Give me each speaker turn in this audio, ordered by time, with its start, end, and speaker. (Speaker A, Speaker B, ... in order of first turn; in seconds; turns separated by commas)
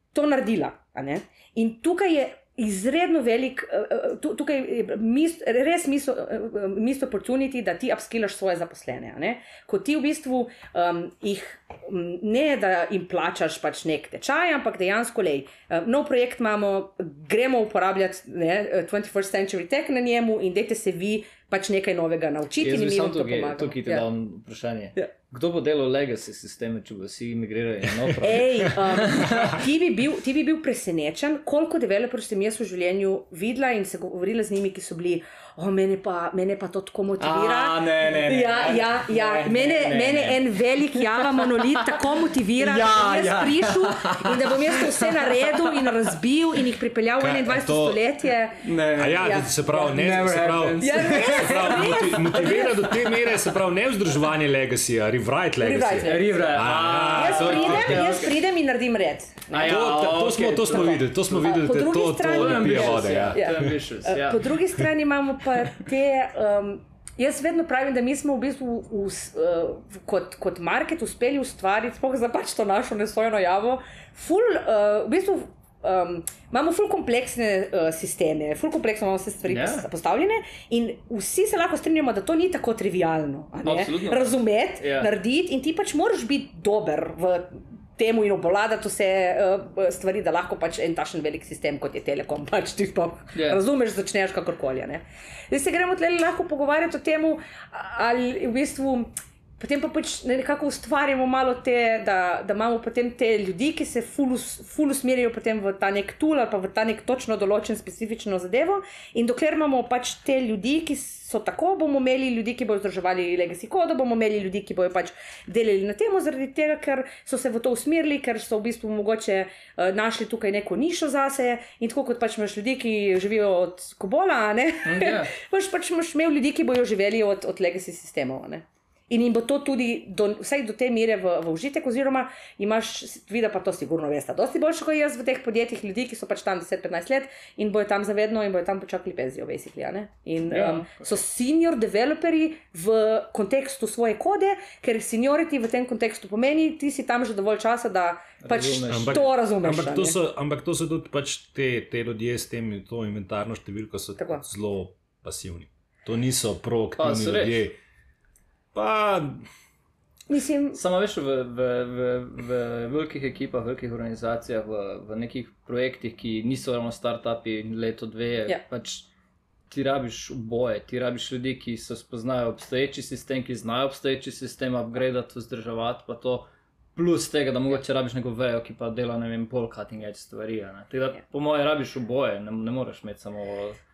Speaker A: 0.1-24.1, Speaker B: 22.6-29.6, Speaker A: 28.2-49.9, Speaker B: 37.2-42.0, Speaker B: 42.6-46.0, Speaker C: 47.2-48.0, Speaker B: 48.6-52.6, Speaker C: 48.9-58.2, Speaker A: 50.8-53.0, Speaker A: 55.6-56.5, Speaker B: 56.0-58.4, Speaker A: 57.1-60.0, Speaker B: 59.5-61.4, Speaker C: 59.6-63.7, Speaker A: 60.7-150.2, Speaker B: 62.2-64.6, Speaker B: 79.5-79.9, Speaker B: 83.7-85.1, Speaker B: 93.3-93.6, Speaker B: 124.8-125.3, Speaker B: 140.5-141.2, Speaker B: 148.4-149.3, Speaker C: 148.9-157.8, Speaker A: 154.2-154.4, Speaker B: 157.0-157.6, Speaker C: 158.7-159.5, Speaker A: 160.3-160.8, Speaker B: 160.7-169.1, Speaker B: 169.7-183.8